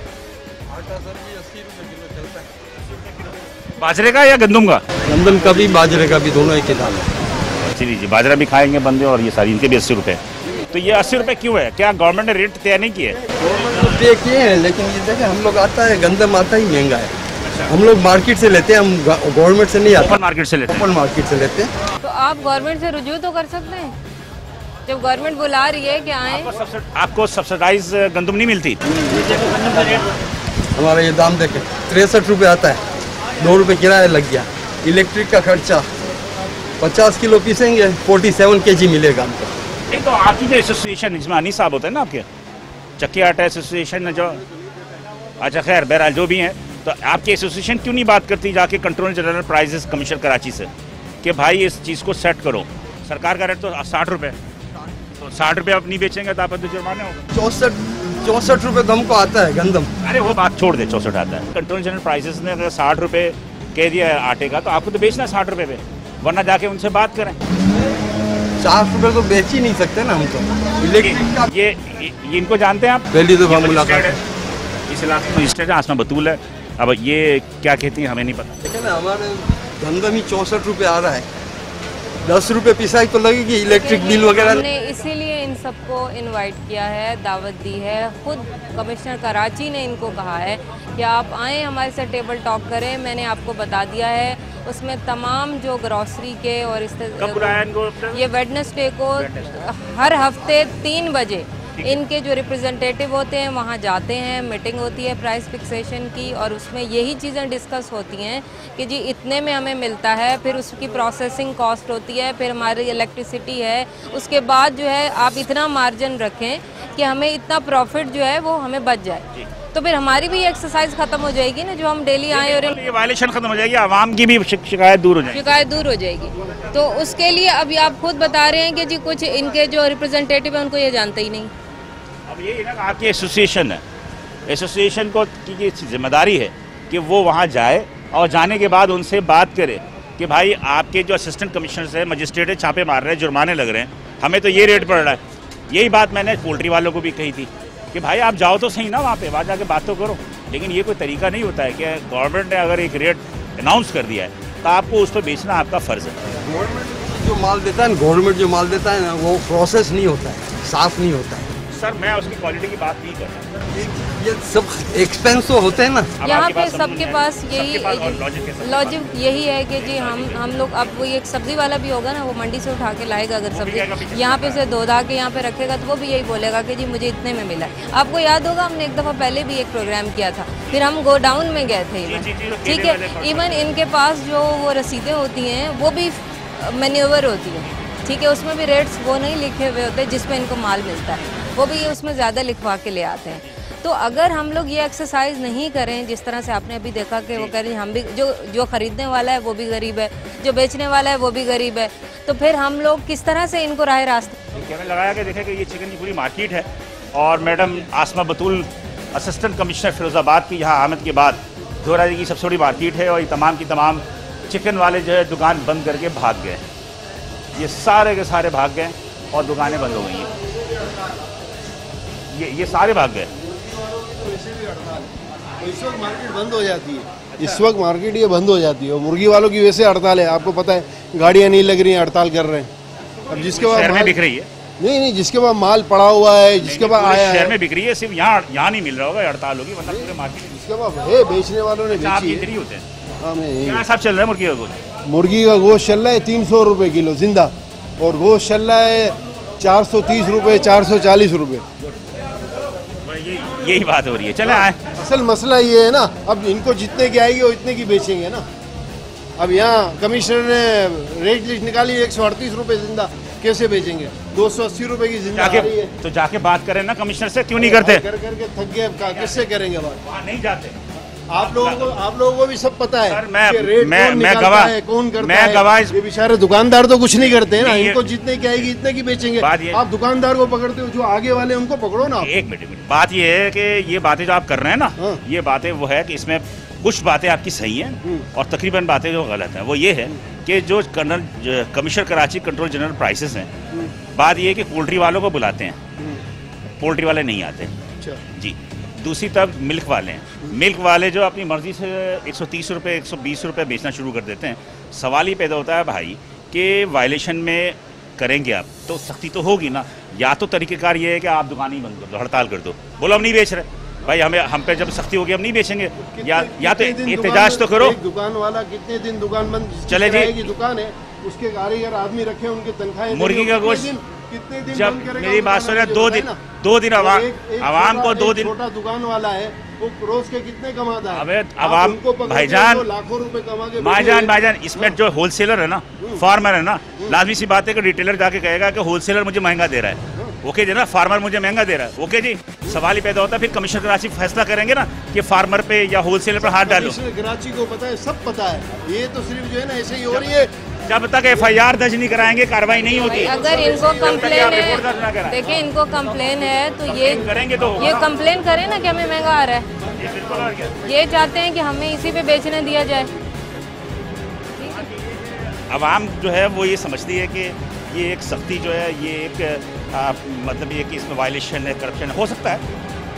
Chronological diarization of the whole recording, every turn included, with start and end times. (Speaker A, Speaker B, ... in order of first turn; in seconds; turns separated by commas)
Speaker A: 0.7-2.5, Speaker B: 3.8-4.8, Speaker A: 5.0-7.1, Speaker B: 7.6-13.2, Speaker A: 13.3-17.1, Speaker B: 17.4-17.7, Speaker A: 17.7-21.7, Speaker B: 20.0-20.9, Speaker C: 22.0-23.9, Speaker C: 24.9-26.5, Speaker B: 26.3-28.8, Speaker A: 29.1-30.0, Speaker A: 30.8-32.8, Speaker A: 33.4-35.9, Speaker A: 36.8-39.5, Speaker B: 39.9-42.2, Speaker B: 43.0-44.4, Speaker B: 45.4-50.7, Speaker B: 51.2-54.4, Speaker B: 55.2-57.2, Speaker A: 57.3-59.9, Speaker B: 60.0-67.4, Speaker A: 68.6-71.5, Speaker B: 71.0-74.2, Speaker A: 73.1-74.2, Speaker B: 74.9-78.6, Speaker A: 78.6-81.3, Speaker A: 82.2-84.6, Speaker C: 83.7-122.8, Speaker B: 97.2-98.2, Speaker B: 99.2-99.7, Speaker B: 122.3-125.5, Speaker C: 125.3-131.5, Speaker B: 132.3-133.8, Speaker B: 134.5-156.2, Speaker A: 156.4-161.5, Speaker B: 161.7-163.5, Speaker A: 163.8-166.1, Speaker B: 166.2-171.1, Speaker C: 166.2-204.4, Speaker B: 173.5-174.6, Speaker B: 182.0-183.7, Speaker B: 191.2-191.5, Speaker B: 204.5-216.6, Speaker B: 217.6-220.3, Speaker B: 222.3-223.3, Speaker D: 223.4-232.7, Speaker D: 233.3-234.2, Speaker B: 233.3-234.5, Speaker D: 234.8-237.6, Speaker B: 236.6-240.6, Speaker D: 239.9-242.5, Speaker B: 241.9-242.8, Speaker D: 243.2-243.8, Speaker B: 243.6-244.8, Speaker D: 245.1-251.6, Speaker B: 253.1-254.8, Speaker D: 254.4-258.4, Speaker D: 259.4-265.9, Speaker B: 265.4-268.0, Speaker D: 267.6-270.0, Speaker B: 269.0-269.5, Speaker B: 270.0-270.8, Speaker D: 271.3-282.3, Speaker B: 271.4-272.0, Speaker B: 273.1-275.9, Speaker B: 277.3-278.7, Speaker B: 279.4-279.8, Speaker B: 282.2-293.5, Speaker B: 294.1-295.8, Speaker D: 296.0-296.2, Speaker B: 296.8-297.7, Speaker B: 298.3-317.9, Speaker D: 316.0-326.4, Speaker B: 319.9-320.4, Speaker B: 323.1-323.9, Speaker B: 324.7-328.5, Speaker D: 326.9-334.9, Speaker B: 331.1-332.9, Speaker B: 333.8-347.0, Speaker D: 346.4-350.5, Speaker B: 350.9-355.4, Speaker C: 353.0-359.7, Speaker D: 353.4-354.3, Speaker B: 356.9-358.1, Speaker D: 357.4-358.1, Speaker B: 359.9-360.8, Speaker D: 360.1-360.7, Speaker C: 360.8-363.1, Speaker C: 364.6-364.9, Speaker B: 364.6-372.6